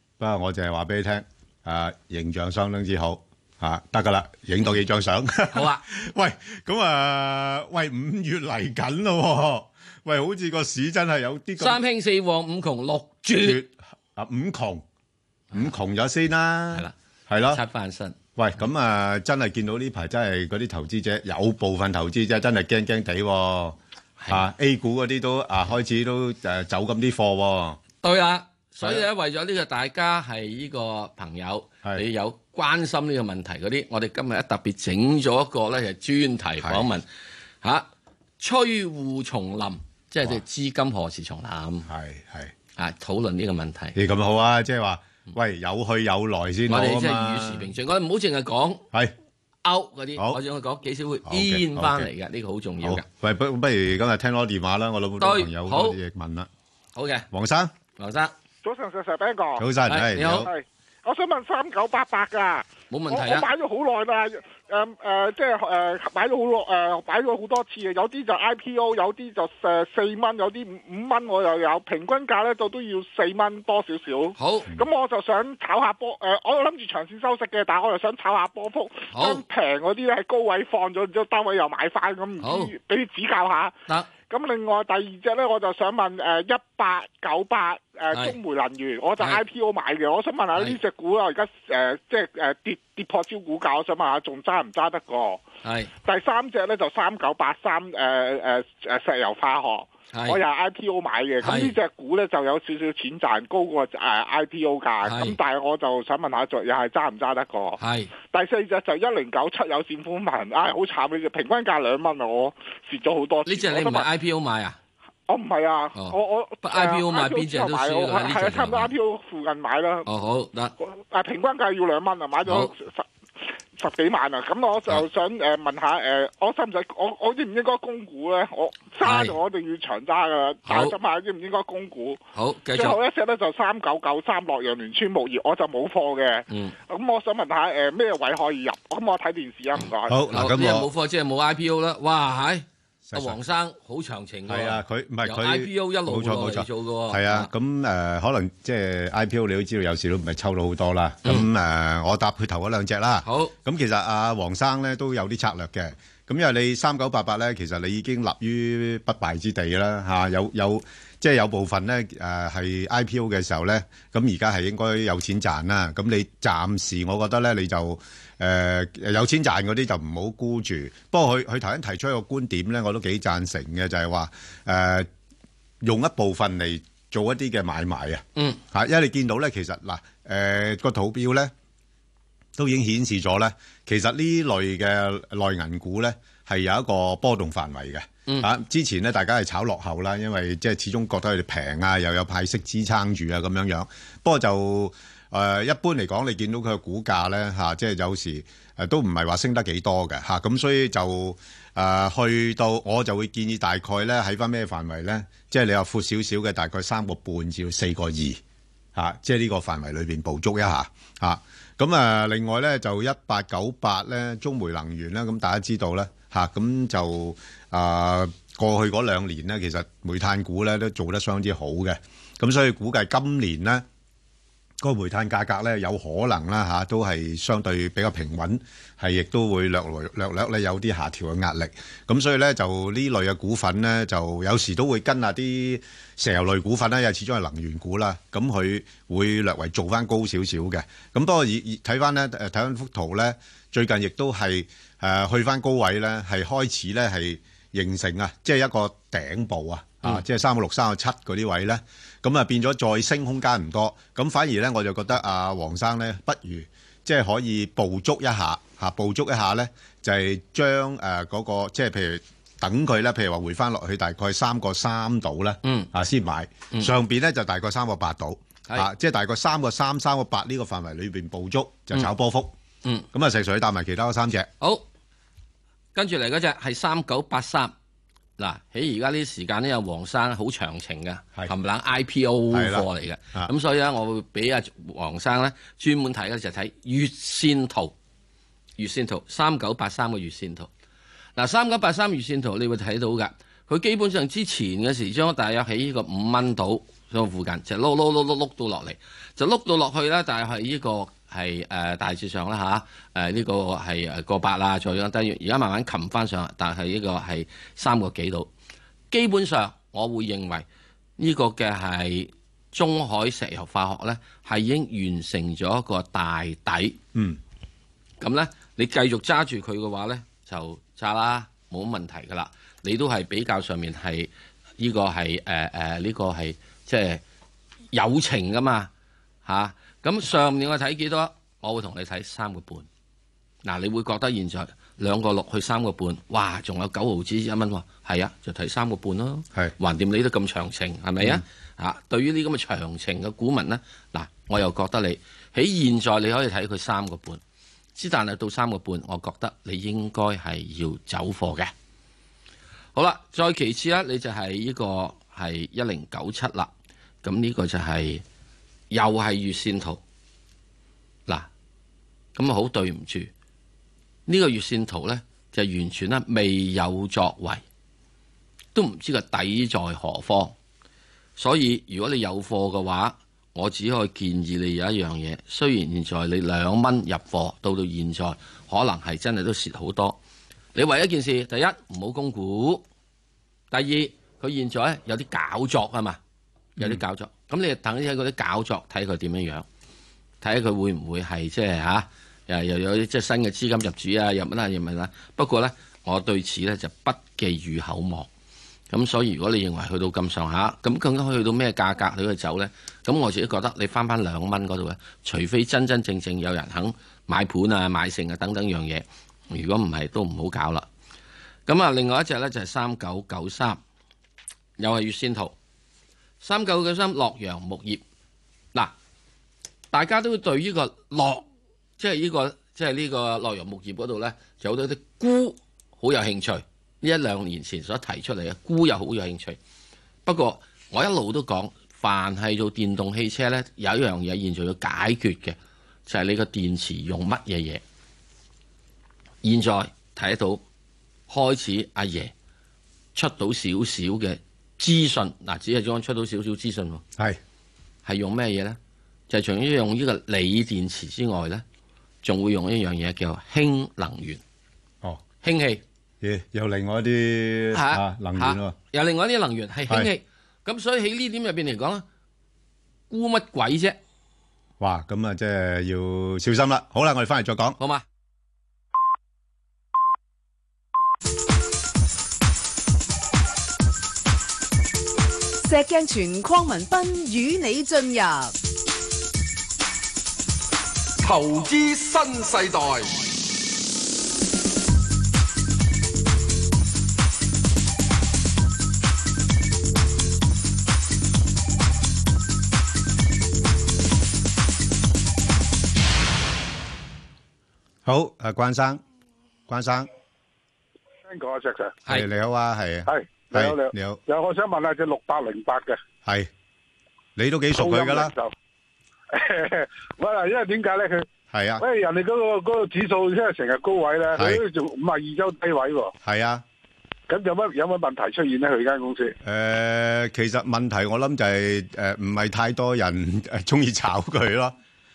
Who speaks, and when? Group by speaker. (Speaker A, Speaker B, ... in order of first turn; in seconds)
Speaker A: 0.2-11.8, 13.4-14.8, 15.5-17.6, 18.4-23.8, 24.3-27.8, 36.6-36.9, 41.9-42.5, 44.0-47.7, 51.3-52.1, 52.8-56.5, 57.3-57.7, 59.6-60.5, 140.1-140.9, 143.1-143.4, 144.5-175.1, 175.8-181.5, 182.6-208.4, 208.9-223.8, 224.8-272.5, 273.1-274.5, 282.5-283.5, 317.1-317.4, 456.2-458.8, 464.8-467.8, 498.1-499.0, 499.7-500.1, 502.1-504.2, 507.4-508.3, 511.5-511.8, 514.4-514.6, 516.2-516.6, 519.4-524.8
Speaker B: 5.5-5.8, 11.6-13.6, 17.5-18.2, 24.2-24.5, 28.0-37.1, 37.6-37.9, 38.4-41.9, 42.8-44.0, 46.7-48.9, 49.6-53.1, 55.2-56.0, 57.0-57.3, 58.0-58.3, 59.9-60.5, 62.9-63.5, 74.4-74.7, 79.1-79.4, 82.4-82.7, 95.6-95.9, 100.1-100.4, 101.4-101.7, 105.0-105.4, 107.8-108.1, 113.5-114.8, 116.0-118.9, 120.1-120.7, 122.5-122.7, 129.0-129.4, 130.7-130.9, 132.3-133.0, 136.5-136.8, 140.3-147.5, 153.2-153.5, 265.6-265.9, 275.9-277.7, 278.4-287.9, 288.8-290.7, 291.4-308.5, 309.1-310.7, 311.2-317.0, 318.2-327.2, 327.9-328.9, 329.5-332.9, 333.6-347.4, 348.0-351.7, 352.9-356.7, 357.2-358.2, 358.9-360.0, 362.4-363.3, 364.3-367.6, 368.8-370.5, 371.4-380.2, 380.8-382.8, 383.7-386.2, 386.8-389.6, 390.4-398.3, 398.9-410.9, 411.7-413.8, 414.8-415.6, 416.4-418.0, 419.9-421.5, 422.0-429.6, 430.3-437.8, 439.4-440.6, 441.3-442.3, 443.1-447.0, 448.1-448.8, 449.3-451.6, 452.2-454.4, 455.4-455.8, 457.7-462.1, 463.1-464.0, 467.8-468.0
Speaker C: 58.6-59.7, 60.2-95.5, 96.0-107.8, 108.3-114.1, 115.3-120.1, 120.9-123.0, 123.8-132.2, 132.8-140.2
Speaker D: 475.6-478.5
Speaker E: 481.2-483.2
Speaker F: 501.3-502.0, 503.1-506.0, 507.8-508.5, 509.3-511.3, 511.8-516.1, 517.3-519.4